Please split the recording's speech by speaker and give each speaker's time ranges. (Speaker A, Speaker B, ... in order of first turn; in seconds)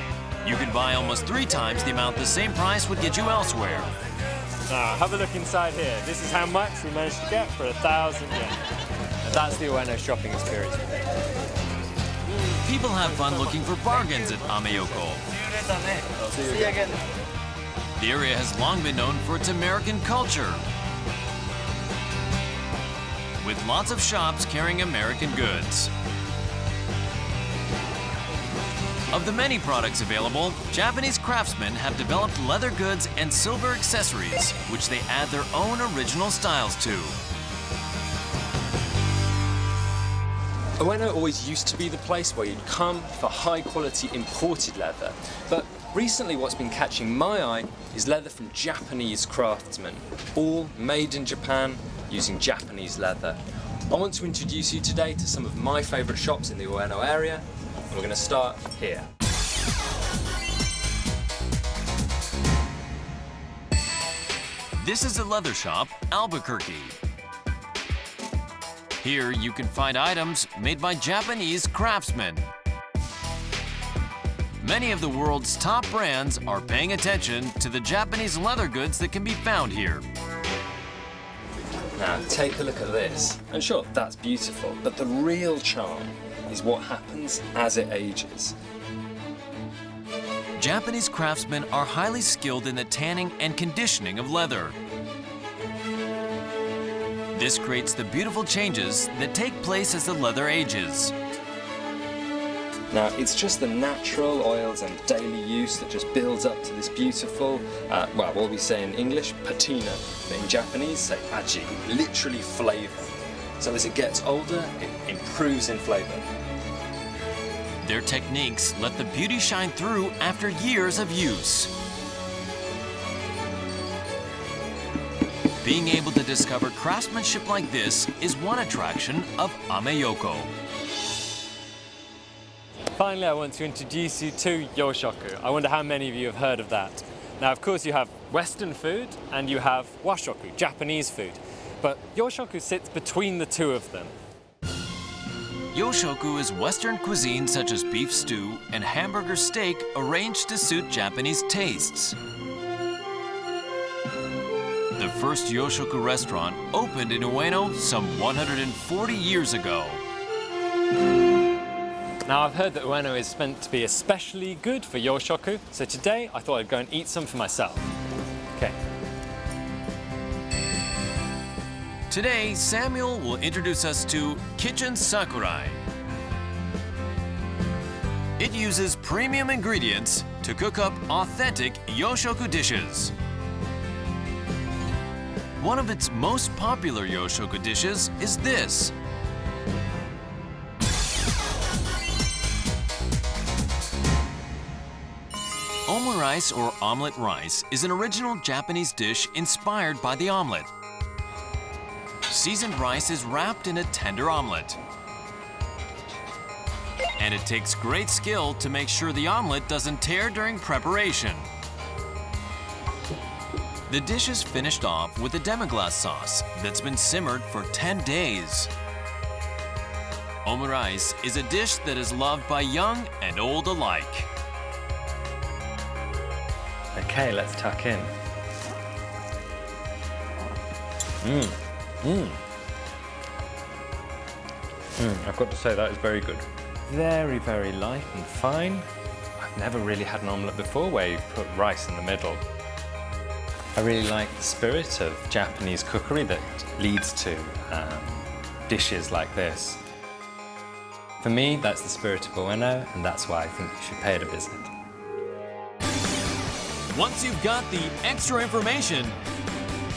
Speaker A: 0.4-3.9, 12.5-15.2, 18.0-20.7, 23.4-25.9, 29.1-37.2, 64.8-67.0, 69.0-72.5, 74.6-80.0, 90.6-94.8, 97.3-101.1, 117.8-121.7, 125.6-130.5, 145.7-152.2, 155.0-160.0, 172.1-175.8, 178.4-183.1, 185.6-188.9, 195.9-200.7, 202.3-204.8, 207.2-211.5, 213.9-218.7, 220.4-224.3, 256.9-259.2
Speaker B: 4.7-8.6, 9.2-11.0, 16.0-16.9, 40.8-59.1, 82.0-88.5, 102.9-116.3, 133.0-144.1, 162.3-167.9, 226.9-228.1, 231.2-232.4, 235.0-238.9, 239.4-242.4, 243.8-249.8, 251.2-254.7